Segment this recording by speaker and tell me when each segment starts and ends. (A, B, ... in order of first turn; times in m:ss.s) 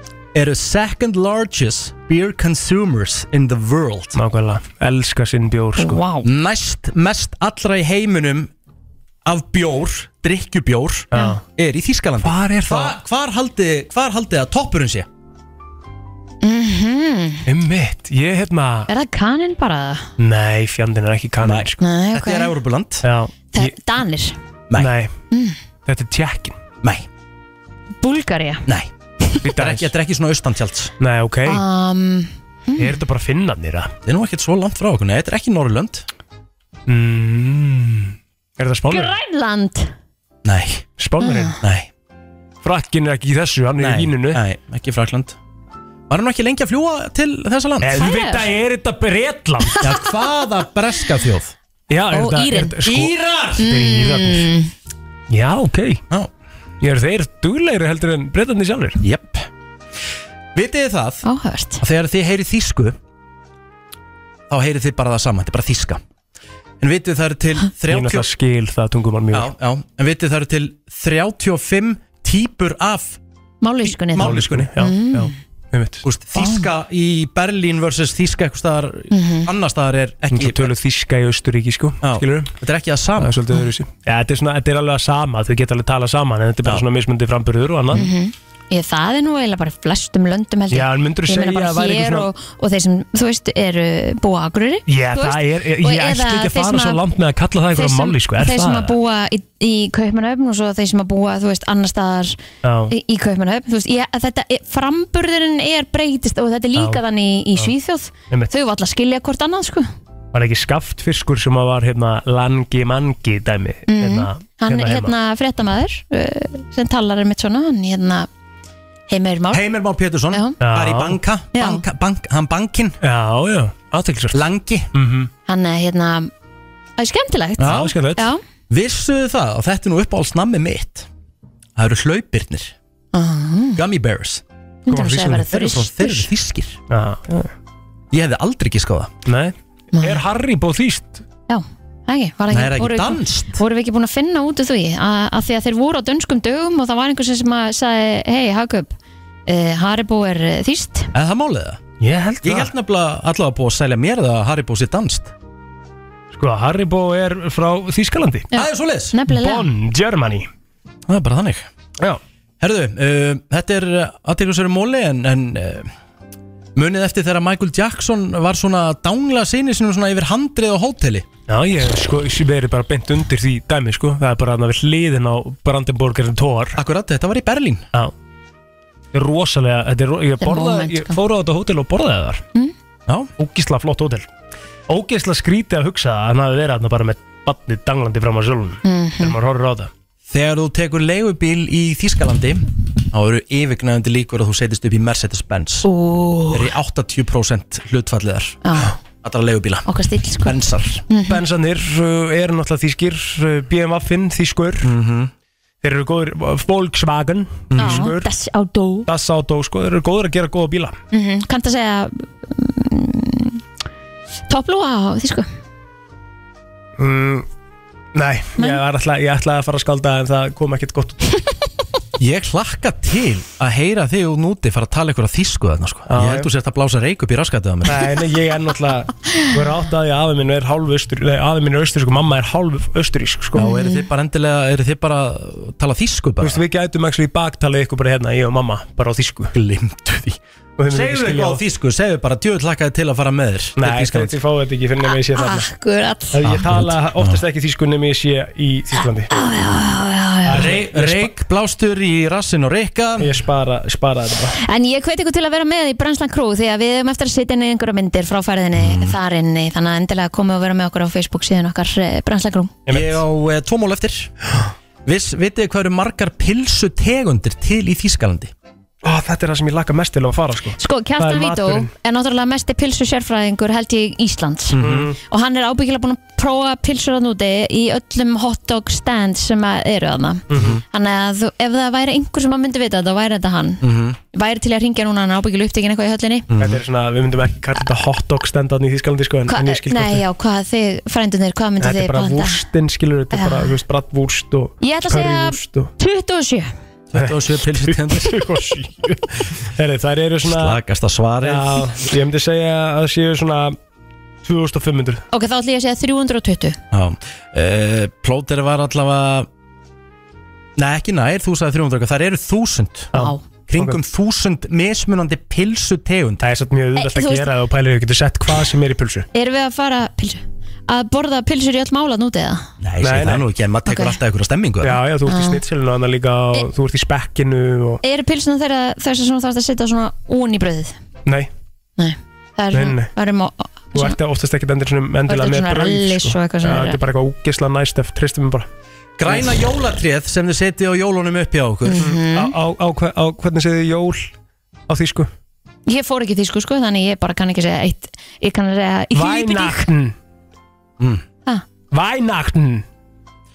0:00.3-0:04.2 A
0:04.2-0:06.0 B
0:05.8-0:06.3 C
0:06.2-0:08.5 A
0:09.2-0:15.1 A
0:11.1-0:11.4 B
0:11.1-0:11.4 C
0:12.2-0:13.0 B
0:16.4-0:17.4 C
0:17.5-0:18.9 B
0:18.9-0:20.1 C
0:20.2-0:21.8 B
0:21.4-0:23.0 A
0:21.8-0:22.6 C
0:23.0-0:23.7 B
0:23.5-0:24.4 C
0:24.8-0:25.1 B
0:25.3-0:25.6 C
0:25.9-0:26.6 B
0:28.0-0:28.7 C
0:28.7-0:28.9 A
0:29.4-0:29.9 B
0:29.4-0:30.9 A
0:31.0-0:31.6 B
0:31.5-0:33.0 C
0:32.8-0:33.9 B
0:34.1-0:36.1 A
0:36.9-0:38.0 B
0:38.6-0:39.1 B
0:38.9-0:39.9 C
0:40.4-0:40.9 A
0:41.0-0:41.6 B
0:41.2-0:41.6 C
0:41.6-0:41.9 A
0:42.6-0:44.4 B
0:43.8-0:45.4 A
0:46.1-0:48.1 A
0:47.8-0:49.8 B
0:48.0-0:48.5 C
0:49.8-0:51.5 A
0:51.9-0:54.5 B
0:52.1-0:52.8 C
0:52.8-0:53.7 A
0:53.6-0:54.7 C
0:55.3-0:56.0 B
0:56.8-0:59.0 B
0:59.0-0:59.5 A
1:00.6-1:01.2 A
1:01.2-1:01.8 C
1:01.8-1:03.0 A
1:04.5-1:06.0 A
1:06.8-1:08.3 A
1:07.9-1:09.5 B
1:09.3-1:13.2 A
1:13.6-1:15.3 C
1:14.0-1:14.7 A
1:14.2-1:16.0 B
1:16.0-1:20.7 A
1:19.1-1:19.5 C
1:20.3-1:22.5 B
1:22.0-1:23.4 A
1:23.2-1:28.1 B
1:27.9-1:37.0 C
1:30.7-1:32.3 B
1:34.9-1:39.0 B
1:37.7-1:49.9 C
1:42.6-1:42.9 B
1:46.8-1:47.0 B
1:50.3-1:55.1 B
1:53.9-1:58.3 C
1:59.1-1:59.6 C
1:59.5-2:03.0 A
2:00.3-2:00.6 C
2:00.6-2:01.2 B
2:01.5-2:01.8 C
2:03.0-2:05.3 B
2:04.3-2:04.9 A
2:05.5-2:06.3 C
2:07.0-2:08.4 C
2:07.6-2:08.0 A
2:07.6-2:08.3 B
2:08.7-2:11.1 A
2:11.8-2:12.7 A
2:13.1-2:13.8 C
2:13.8-2:14.4 A
2:14.9-2:16.3 C
2:14.9-2:15.5 B
2:15.4-2:16.8 A
2:16.9-2:17.5 B
2:18.1-2:19.2 A
2:19.3-2:21.2 B
2:19.9-2:20.2 C
2:21.5-2:28.9 C
2:22.5-2:23.6 A
2:29.5-2:31.1 C
2:31.1-2:31.8 A
2:32.0-2:32.7 B
2:32.4-2:35.3 A
2:36.3-2:38.5 B
2:38.5-2:39.7 C
2:38.5-2:39.2 A
2:39.3-2:40.5 B
2:41.1-2:41.7 A
2:42.6-2:45.9 A
2:46.8-2:51.3 A
2:51.5-2:56.8 B
2:56.8-2:57.9 A
2:59.1-3:02.4 B
3:00.4-3:01.2 C
3:03.4-3:04.3 B
3:04.9-3:09.9 B
3:08.8-3:09.4 C
3:10.3-3:15.9 A
3:15.8-3:16.7 C
3:16.5-3:18.6 A
3:18.6-3:19.0 C
3:19.2-3:19.9 A
3:19.9-3:21.4 C
3:20.4-3:21.0 A
3:21.3-3:24.9 B
3:24.8-3:25.3 A
3:25.8-3:28.3 B
3:27.7-3:28.1 A
3:27.8-3:29.1 C
3:29.1-3:31.0 B
3:31.1-3:33.6 C
3:34.5-3:35.5 C
3:37.0-3:37.5 B
3:38.2-3:41.4 B
3:38.6-3:38.8 C
3:42.2-3:48.2 A
3:46.1-3:46.5 B
3:47.8-3:53.7 B
3:53.6-3:54.0 C
3:53.6-3:56.6 A
3:56.4-3:59.5 B
3:59.5-4:00.4 A
4:00.8-4:01.6 B
4:00.9-4:04.4 A
4:03.8-4:05.7 B
4:05.1-4:06.5 C
4:06.3-4:09.3 B
4:06.4-4:07.4 A
4:09.3-4:10.8 C
4:10.5-4:11.3 B
4:10.5-4:13.3 A
4:13.2-4:14.6 B
4:14.6-4:22.8 C
4:18.8-4:19.2 A
4:22.9-4:23.2 B
4:22.9-4:24.3 A
4:25.0-4:28.5 A
4:29.0-4:31.9 B
4:30.8-4:46.5 C
4:34.7-4:35.1 A
4:34.8-4:35.2 B
4:40.5-4:40.8 B
4:40.5-4:40.8 A
4:43.8-4:44.2 A
4:46.5-4:46.8 A
4:46.6-4:50.2 B
4:49.5-4:52.6 C
4:51.8-4:55.9 B
4:53.3-4:53.8 C
4:54.8-4:56.7 C
4:57.1-4:58.4 A
4:57.8-5:00.8 B
5:00.4-5:02.0 A
5:01.4-5:03.8 B
5:04.4-5:05.2 B
5:05.3-5:06.8 C
5:06.9-5:09.5 A
5:10.8-5:13.1 A
5:13.1-5:14.0 B
5:13.1-5:13.4 C
5:13.7-5:16.5 A
5:16.4-5:19.3 B
5:17.0-5:17.5 C
5:19.3-5:22.7 C
5:22.8-5:25.0 A
5:23.0-5:23.5 B
5:23.8-5:24.2 C
5:24.8-5:28.0 B
5:25.3-5:25.6 C
5:28.0-5:31.0 C
5:32.0-5:34.2 C
5:32.7-5:33.1 B
5:33.9-5:38.7 B
5:35.3-5:37.0 C
5:39.2-5:42.2 A
5:41.8-5:42.6 C
5:42.1-5:44.3 B
5:44.9-5:45.3 B
5:45.9-5:49.9 C
5:49.1-5:50.1 B
5:51.9-5:52.8 B